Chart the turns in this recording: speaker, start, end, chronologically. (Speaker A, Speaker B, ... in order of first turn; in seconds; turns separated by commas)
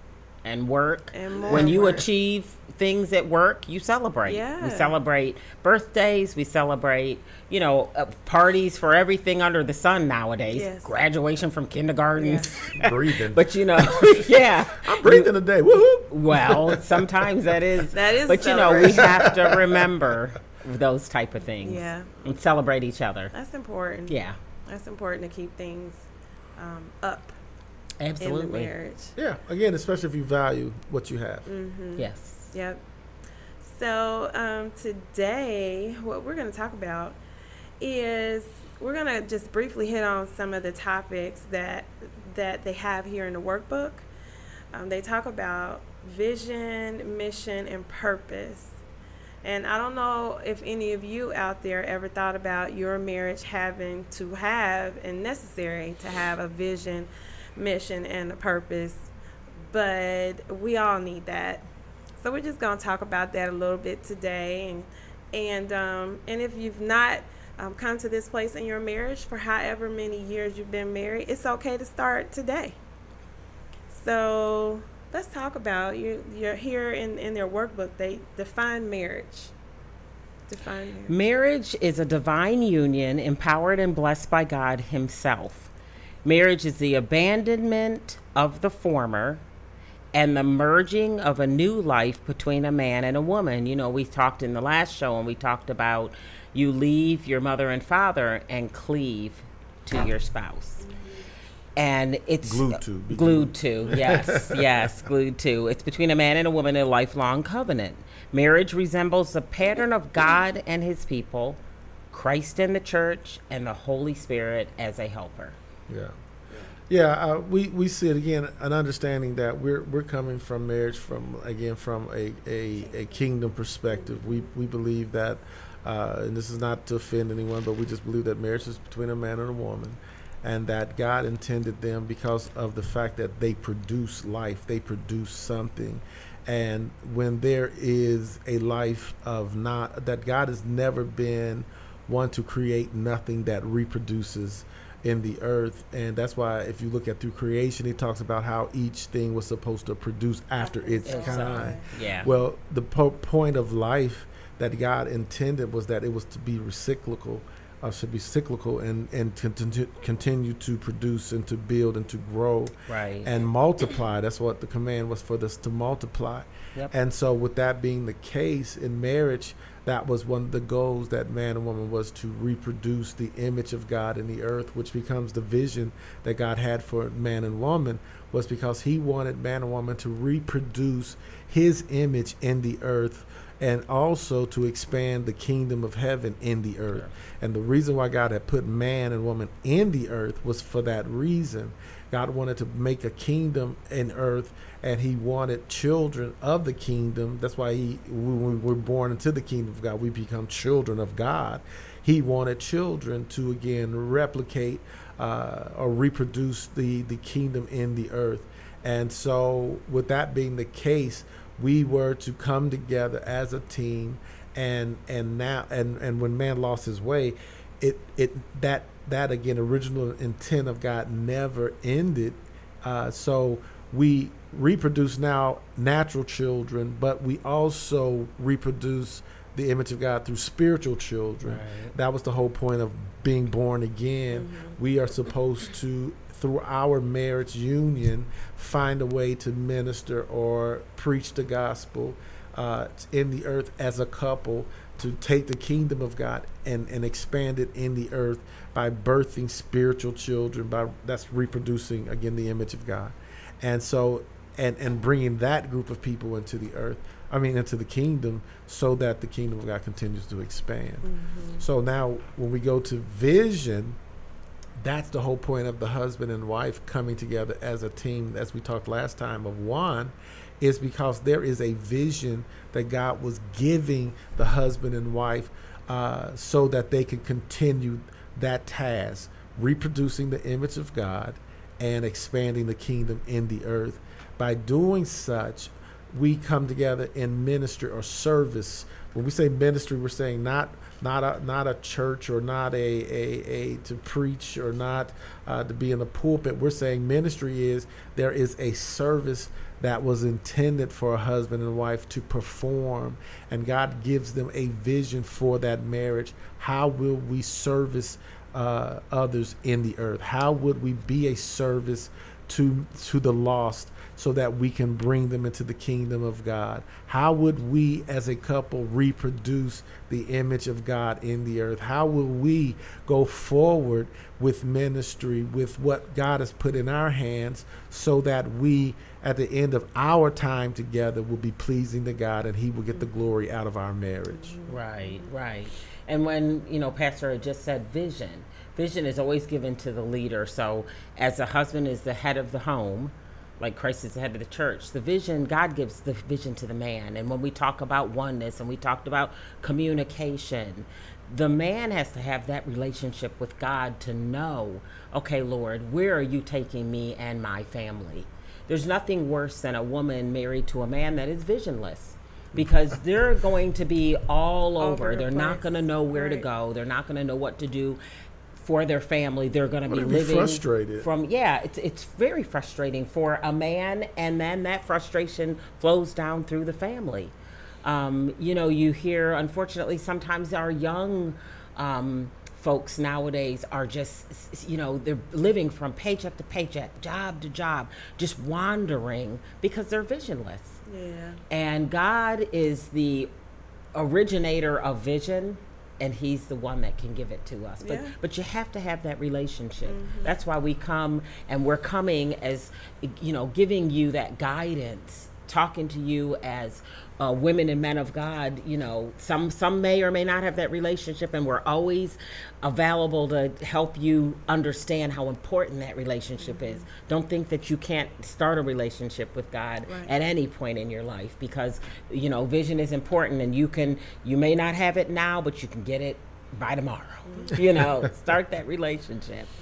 Speaker A: 0.5-15.3, Speaker B: 1.1-2.1, Speaker C: 1.5-1.8, Speaker B: 4.3-5.0, Speaker B: 10.5-11.0, Speaker B: 12.2-12.5, Speaker C: 12.6-17.3, Speaker A: 16.1-23.3, Speaker B: 17.9-19.2, Speaker C: 18.7-19.9, Speaker B: 21.5-22.2, Speaker B: 23.3-27.3, Speaker A: 24.1-24.4, Speaker A: 28.0-28.7, Speaker B: 28.2-29.1, Speaker C: 29.2-31.5, Speaker B: 31.5-32.8, Speaker A: 32.0-32.5, Speaker B: 33.6-37.2, Speaker B: 37.8-44.1, Speaker B: 44.7-48.8, Speaker B: 49.4-59.1, Speaker B: 59.7-61.7, Speaker B: 62.2-72.8, Speaker B: 73.9-79.5, Speaker B: 80.5-81.2, Speaker A: 81.1-85.7, Speaker A: 86.2-89.4, Speaker A: 90.1-100.9, Speaker A: 101.8-115.6, Speaker C: 102.4-104.9, Speaker C: 115.9-116.2, Speaker B: 116.5-116.8, Speaker C: 116.9-261.1, Speaker B: 122.8-123.2, Speaker B: 123.9-124.4, Speaker B: 150.6-152.2, Speaker A: 151.1-152.3, Speaker A: 162.9-163.3, Speaker A: 231.4-231.9, Speaker B: 234.3-234.8, Speaker B: 261.1-261.6, Speaker C: 261.6-264.0, Speaker C: 264.8-334.6, Speaker B: 334.3-335.3, Speaker A: 334.7-368.0, Speaker C: 362.5-363.0, Speaker B: 364.8-366.5, Speaker A: 368.6-377.3, Speaker C: 369.9-371.1, Speaker A: 377.8-390.8, Speaker B: 390.9-391.4, Speaker A: 391.5-393.3, Speaker A: 393.9-429.5, Speaker B: 397.8-398.2, Speaker B: 399.9-400.3, Speaker B: 416.4-416.9, Speaker B: 419.9-420.1, Speaker B: 427.3-427.6, Speaker C: 427.8-428.1